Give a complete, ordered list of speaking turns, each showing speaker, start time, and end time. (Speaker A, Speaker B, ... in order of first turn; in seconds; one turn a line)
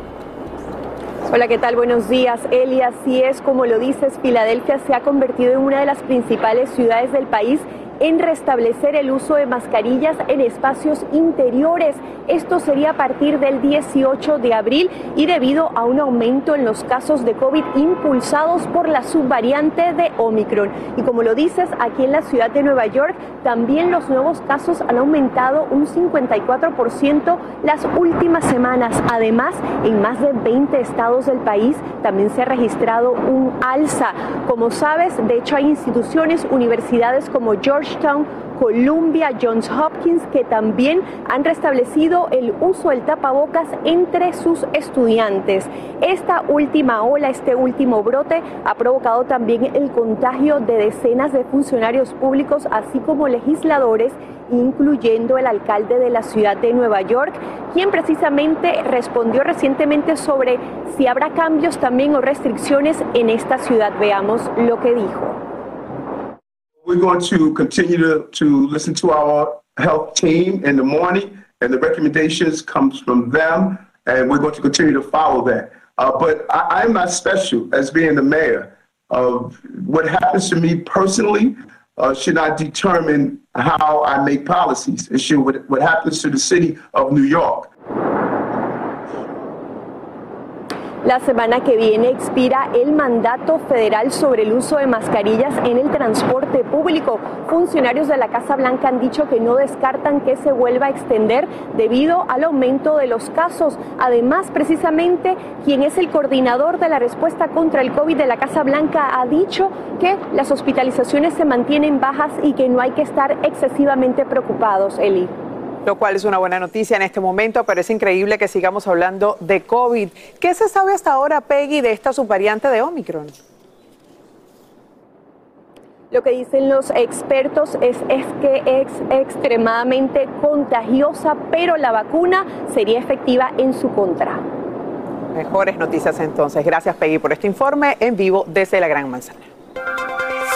Speaker A: 1.3-65.4
Speaker B: 66.8-87.7
Speaker A: 91.0-115.3
Speaker C: 115.8-123.3
Speaker A: 126.1-134.5
Speaker C: 135.3-139.5